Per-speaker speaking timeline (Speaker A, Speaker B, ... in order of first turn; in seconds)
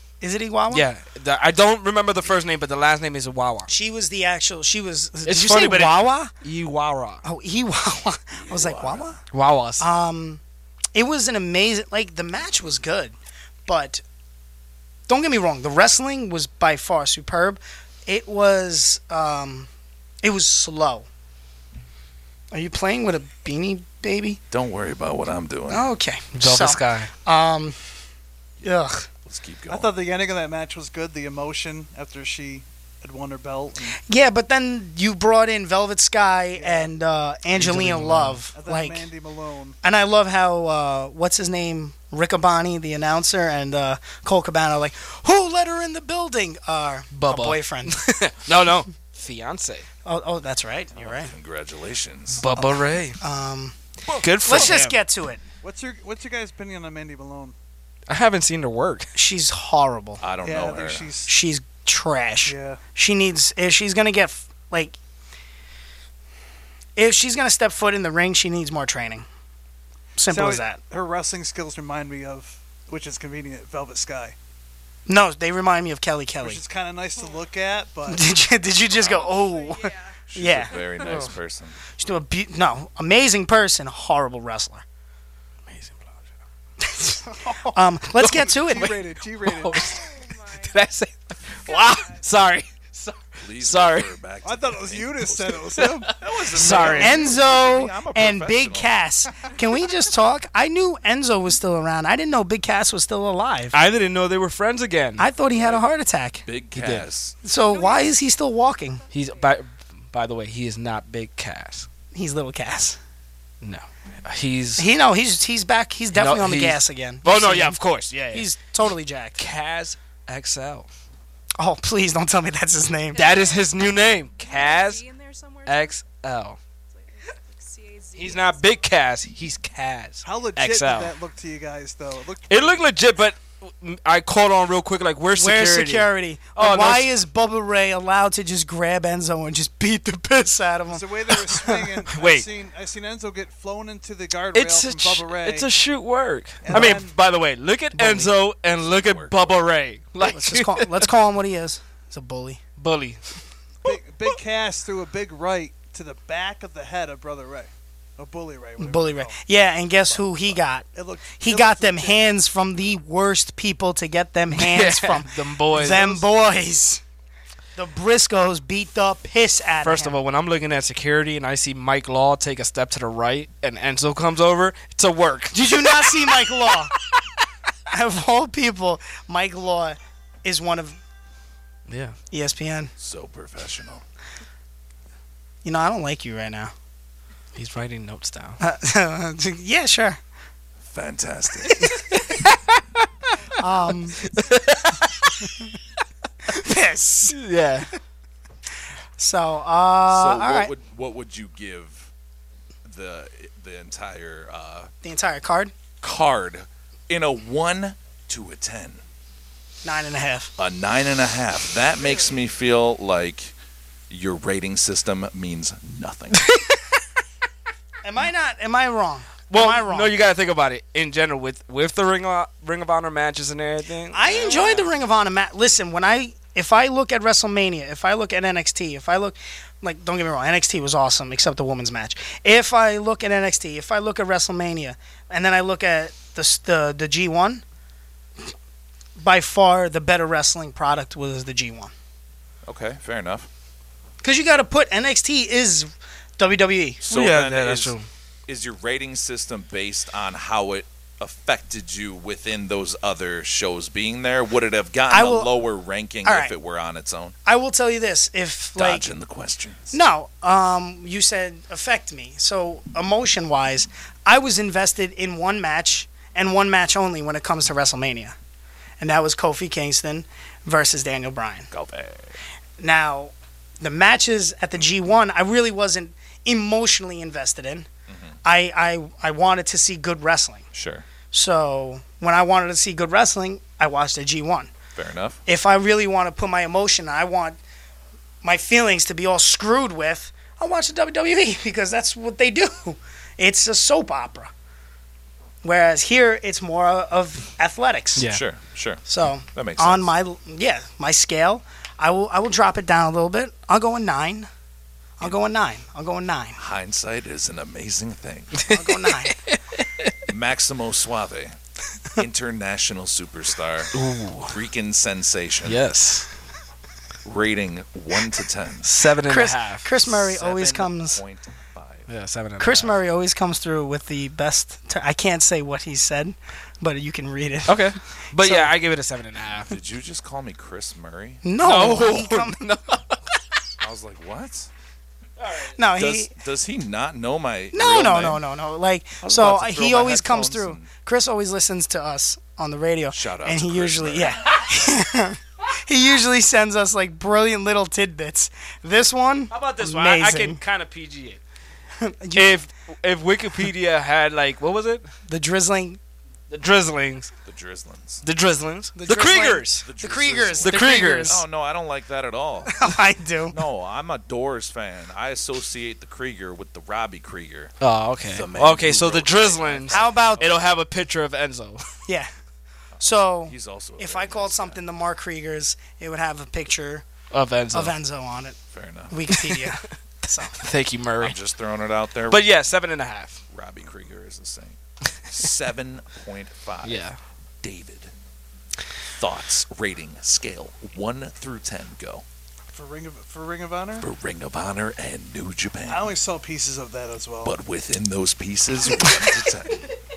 Speaker A: 0.2-0.9, 3.7-6.3, 7.2-9.2, 9.8-10.4, 10.9-13.1, 13.7-14.0, 15.1-19.7, 20.2-21.1, 22.5-24.4, 25.7-27.8, 28.6-29.1, 34.1-39.1, 39.8-48.0, 50.0-51.3, 53.2-53.8, 54.4-55.4, 59.1-60.2, 61.3-65.0, 67.0-69.2, 70.2-70.8, 75.1-76.6, 78.1-81.3, 82.0-84.8, 86.8-89.0, 96.6-103.7, 105.2-106.4, 107.4-109.0, 112.1-113.0, 114.8-119.4, 121.6-123.2, 135.3-142.0, 146.7-147.0, 147.9-148.3, 150.2-152.6, 158.8-160.9, 161.4-167.0, 167.8-170.2, 175.5-176.9, 177.9-181.0, 182.3-182.9, 185.6-186.7, 188.6-190.2, 193.6-194.2, 196.5-197.4, 199.2-200.7, 205.0-205.7, 209.8-210.5, 218.0-220.1, 224.1-237.6, 239.2-241.9, 244.2-247.0, 255.1-255.5, 256.2-256.5, 257.4-259.1, 259.9-268.4, 269.0-271.7, 272.8-277.9, 278.4-280.6, 281.3-284.7, 285.4-287.6, 288.4-294.5, 295.6-298.3, 299.1-304.5, 305.2-306.6, 308.7-309.4, 319.2-321.2, 322.6-328.7, 331.4-332.6, 335.8-336.3, 337.7-350.6, 352.0-352.5, 355.3-356.0, 358.9-361.4, 362.6-363.6, 369.9-370.5, 373.0-377.1, 377.7-378.6, 379.1-380.6
Speaker B: 0.7-3.7, 5.2-7.2, 9.3-9.9, 26.3-27.1, 37.5-38.4, 47.1-49.9, 52.4-53.2, 54.2-55.0, 58.1-59.1, 85.7-86.2, 89.5-90.1, 90.6-94.1, 95.8-97.3, 103.7-105.3, 106.7-107.0, 109.1-111.9, 113.6-114.9, 116.1-118.5, 119.4-120.9, 123.1-125.0, 125.7-126.6, 128.2-131.1, 132.5-137.1, 142.1-142.5, 144.5-151.1, 152.8-153.4, 164.5-166.2, 169.8-176.5, 181.9-182.2, 187.6-188.6, 191.8-192.6, 194.3-195.5, 197.3-197.9, 216.4-216.7, 219.5-224.8, 247.1-248.0, 298.1-298.4, 308.6-310.1, 313.9-314.5, 315.6-316.3, 318.8-319.9, 322.1-322.9, 327.7-329.7, 331.6-333.2, 335.4-335.7, 349.5-351.4, 352.3-355.1, 356.5-357.3, 358.2-359.9, 360.6-361.4, 367.8-371.8, 377.3-377.9, 380.6-381.3, 382.3-383.4, 386.8-387.2
Speaker C: 8.3-9.1, 24.5-25.9, 29.2-29.9, 50.9-52.4, 60.2-61.1, 80.3-81.8, 93.4-98.9, 106.4-107.4, 148.6-149.6, 160.1-160.6, 183.0-184.0, 190.8-191.8, 200.1-202.1, 202.8-204.9, 206.0-209.0, 210.6-213.5, 214.1-216.5, 242.7-243.5, 247.0-247.9, 248.5-257.3, 258.8-260.0, 271.7-272.4, 278.1-278.4, 280.7-281.0, 284.9-285.4, 298.3-299.0, 299.5-300.1, 306.6-308.6, 310.3-311.5, 312.1-315.8, 317.2-318.9, 320.1-322.1, 329.7-331.4, 333.8-334.7, 336.0-338.4, 339.2-340.9, 343.1-344.6, 357.4-358.2, 359.8-362.8, 363.5-367.7, 368.3-370.6, 372.9-374.8, 378.7-379.2, 381.2-382.5, 383.5-384.8, 385.3-387.1, 387.6-388.1, 389.2-392.2, 394.0-396.1, 397.4-399.9
Speaker D: 29.7-34.0, 36.5-36.9, 38.5-39.8, 55.6-57.5, 60.4-61.3, 62.4-62.8, 70.2-74.3, 76.4-78.2, 88.2-89.9, 94.4-96.2, 130.2-132.9, 140.9-145.7, 146.6-147.1, 153.8-159.4, 160.9-162.2, 165.8-166.1, 392.7-394.1, 395.9-397.5
Speaker E: 79.0-81.2, 89.9-90.8, 91.6-92.3, 107.7-108.3, 108.9-109.6, 123.1-126.0, 126.9-128.9, 193.6-194.4, 212.0-212.3